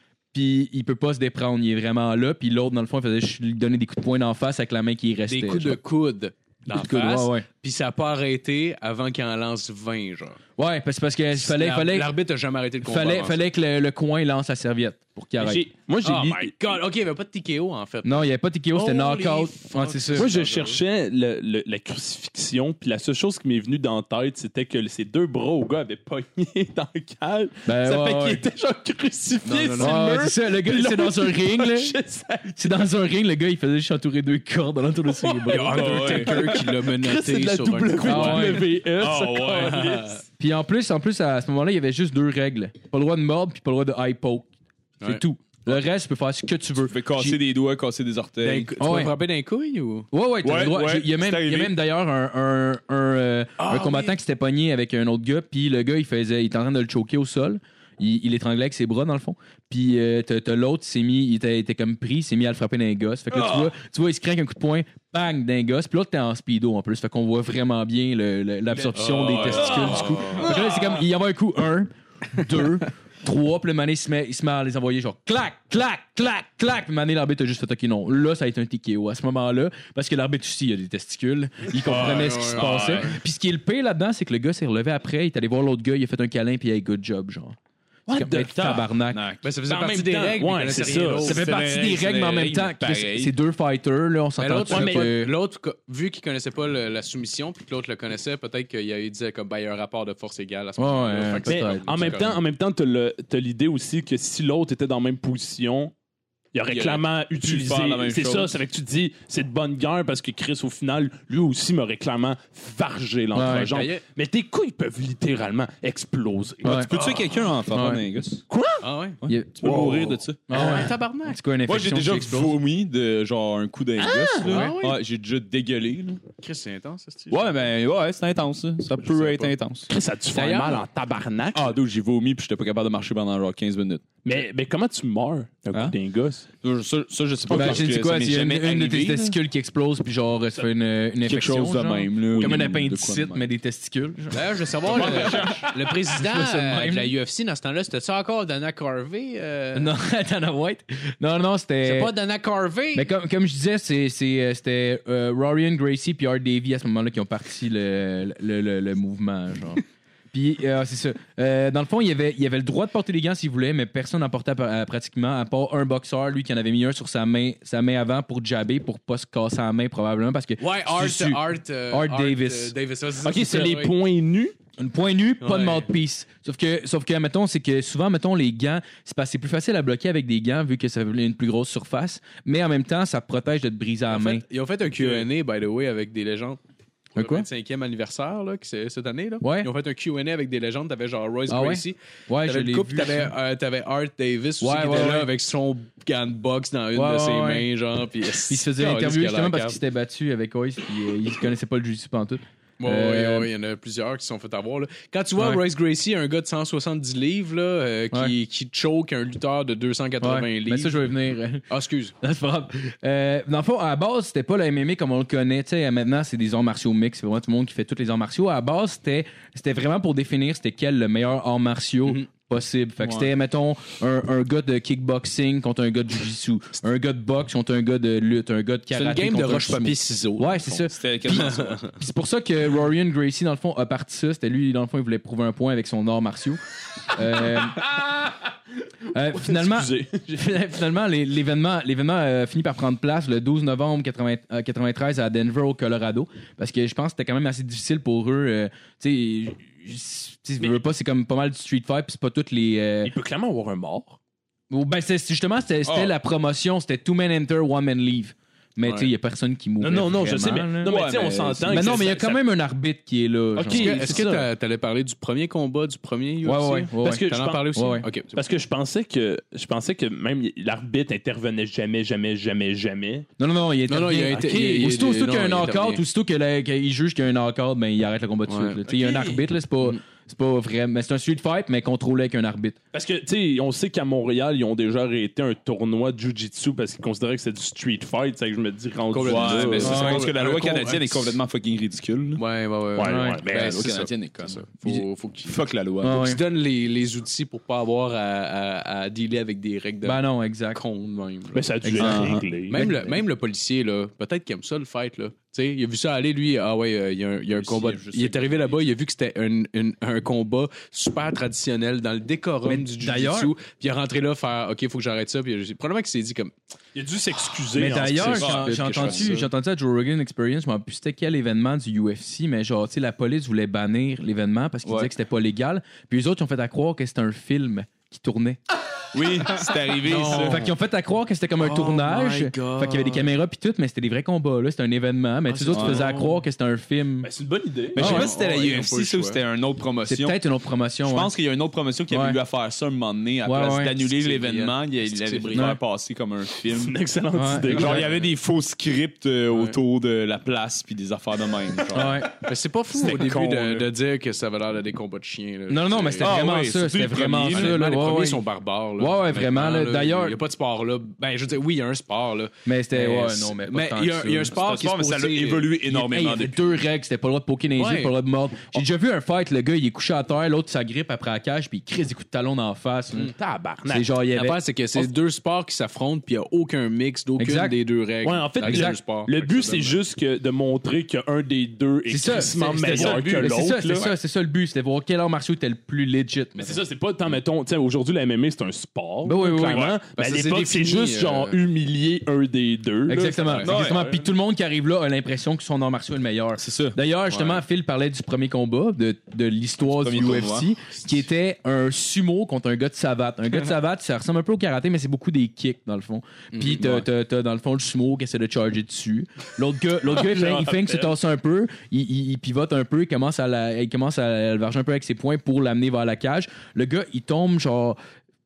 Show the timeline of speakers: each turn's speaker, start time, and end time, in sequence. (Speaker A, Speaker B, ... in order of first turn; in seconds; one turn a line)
Speaker A: 0.3-5.8
Speaker B: 5.3-10.4
Speaker A: 6.7-7.5
Speaker A: 10.6-12.1
Speaker B: 11.3-13.4
Speaker A: 12.8-15.7
Speaker C: 15.4-16.5
Speaker B: 16.0-20.8
Speaker A: 18.0-20.3
Speaker C: 20.1-32.7
Speaker A: 27.7-28.4
Speaker B: 29.4-30.1
Speaker A: 29.8-31.9
Speaker A: 32.6-36.1
Speaker C: 35.2-40.2
Speaker B: 35.5-38.7
Speaker D: 35.8-36.4
Speaker A: 38.0-38.7
Speaker D: 39.0-40.0
Speaker B: 39.5-40.2
Speaker A: 40.4-44.5
Speaker A: 45.0-47.4
Speaker D: 46.9-48.7
Speaker B: 48.4-50.1
Speaker A: 48.8-49.1
Speaker A: 50.1-87.6
Speaker D: 50.4-51.8
Speaker B: 53.6-54.1
Speaker B: 68.7-70.5
Speaker D: 69.3-70.6
Speaker D: 81.9-83.1
Speaker B: 81.9-83.2
Speaker C: 88.1-88.8
Speaker A: 88.1-89.2
Speaker D: 88.5-89.4
Speaker B: 89.4-91.5
Speaker C: 89.7-91.5
Speaker D: 91.2-93.3
Speaker A: 91.2-95.3
Speaker B: 94.4-102.4
Speaker C: 94.7-95.2
Speaker A: 100.8-102.2
Speaker C: 101.5-105.9
Speaker C: 106.5-116.9
Speaker D: 106.7-108.6
Speaker A: 113.3-113.7
Speaker B: 113.5-114.0
Speaker A: 116.6-116.9
Speaker D: 116.7-118.4
Speaker B: 116.9-117.3
Speaker A: 117.7-118.0
Speaker C: 118.5-118.8
Speaker B: 118.8-119.2
Speaker D: 119.2-120.8
Speaker A: 119.3-122.5
Speaker C: 119.6-120.1
Speaker B: 120.5-121.4
Speaker D: 121.7-126.2
Speaker C: 124.0-124.7
Speaker B: 124.5-125.0
Speaker B: 126.4-127.7
Speaker D: 127.3-129.9
Speaker B: 129.1-129.5
Speaker C: 129.9-131.8
Speaker A: 130.4-130.8
Speaker D: 131.5-134.0
Speaker C: 134.2-136.5
Speaker D: 136.6-139.4
Speaker A: 137.5-144.4
Speaker D: 141.2-143.5
Speaker B: 144.3-149.9
Speaker D: 144.9-145.8
Speaker A: 144.9-145.5
Speaker A: 146.1-147.1
Speaker A: 149.8-152.1
Speaker B: 151.8-153.1
Speaker A: 152.9-172.7
Speaker B: 170.6-173.9
Speaker C: 173.2-174.5
Speaker A: 174.8-184.4
Speaker B: 175.4-175.9
Speaker B: 184.1-186.6
Speaker B: 187.2-199.8
Speaker A: 187.2-187.5
Speaker A: 189.4-189.7
Speaker A: 191.5-193.3
Speaker A: 194.6-195.3
Speaker A: 196.9-197.7
Speaker A: 198.5-203.5
Speaker B: 202.8-211.1
Speaker A: 210.2-211.6
Speaker B: 211.7-212.2
Speaker A: 212.2-236.6
Speaker D: 223.0-223.3
Speaker B: 228.9-231.9
Speaker D: 230.9-231.8
Speaker A: 237.1-237.9
Speaker C: 237.8-238.4
Speaker A: 239.1-253.1
Speaker C: 239.3-240.4
Speaker C: 253.0-254.2
Speaker A: 254.7-261.0
Speaker D: 255.8-256.1
Speaker B: 258.8-259.1
Speaker C: 259.8-262.4
Speaker D: 260.8-261.9
Speaker A: 261.6-264.5
Speaker C: 263.6-264.4
Speaker B: 263.7-268.4
Speaker A: 266.4-268.1
Speaker C: 267.0-267.7
Speaker C: 268.3-273.3
Speaker A: 273.4-282.8
Speaker B: 273.9-276.0
Speaker B: 278.5-278.8
Speaker C: 278.9-279.4
Speaker C: 282.9-290.2
Speaker B: 289.1-291.4
Speaker D: 289.2-292.4
Speaker A: 289.8-290.3
Speaker B: 292.4-300.2
Speaker C: 293.0-293.9
Speaker A: 293.1-293.4
Speaker D: 293.4-296.4
Speaker A: 296.0-296.4
Speaker A: 300.0-300.8
Speaker B: 300.7-316.6
Speaker C: 301.6-302.9
Speaker D: 302.0-302.5
Speaker A: 302.7-303.2
Speaker D: 307.5-308.8
Speaker A: 312.6-313.5
Speaker C: 316.9-319.1
Speaker A: 317.8-328.6
Speaker D: 318.2-319.4
Speaker B: 318.6-319.5
Speaker D: 324.8-325.1
Speaker D: 329.1-330.6
Speaker B: 330.1-330.7
Speaker A: 330.2-337.3
Speaker D: 331.6-333.2
Speaker B: 332.6-332.9
Speaker B: 335.5-336.4
Speaker D: 335.7-336.1
Speaker C: 337.2-338.0
Speaker D: 337.9-340.4
Speaker A: 338.0-338.3
Speaker B: 338.0-339.4
Speaker A: 340.1-341.3
Speaker D: 341.0-347.0
Speaker A: 342.1-342.4
Speaker A: 343.4-344.0
Speaker B: 344.1-345.7
Speaker C: 346.7-348.1
Speaker A: 347.3-347.9
Speaker D: 347.7-352.3
Speaker B: 347.8-348.3
Speaker B: 349.5-349.8
Speaker A: 351.9-352.4
Speaker B: 352.4-356.3
Speaker D: 353.0-353.8
Speaker A: 355.7-358.4
Speaker D: 356.2-357.8
Speaker B: 357.4-365.7
Speaker A: 359.0-360.4
Speaker A: 362.7-364.6
Speaker D: 364.5-366.6
Speaker A: 365.9-373.3
Speaker B: 367.8-368.1
Speaker C: 373.3-374.1
Speaker A: 373.9-375.1
Speaker B: 374.3-380.0
Speaker A: 377.4-377.7
Speaker C: 378.2-384.1
Speaker A: 378.6-378.9
Speaker A: 382.1-386.8
Speaker B: 382.3-384.2
Speaker C: 386.6-394.3
Speaker A: 389.2-389.9
Speaker D: 389.7-390.0
Speaker B: 390.2-391.6
Speaker A: 393.1-418.0
Speaker B: 393.4-393.6
Speaker D: 393.6-394.1
Speaker D: 396.6-397.0
Speaker B: 397.3-397.6
Speaker D: 399.9-400.7
Speaker B: 406.5-406.9
Speaker C: 410.1-411.1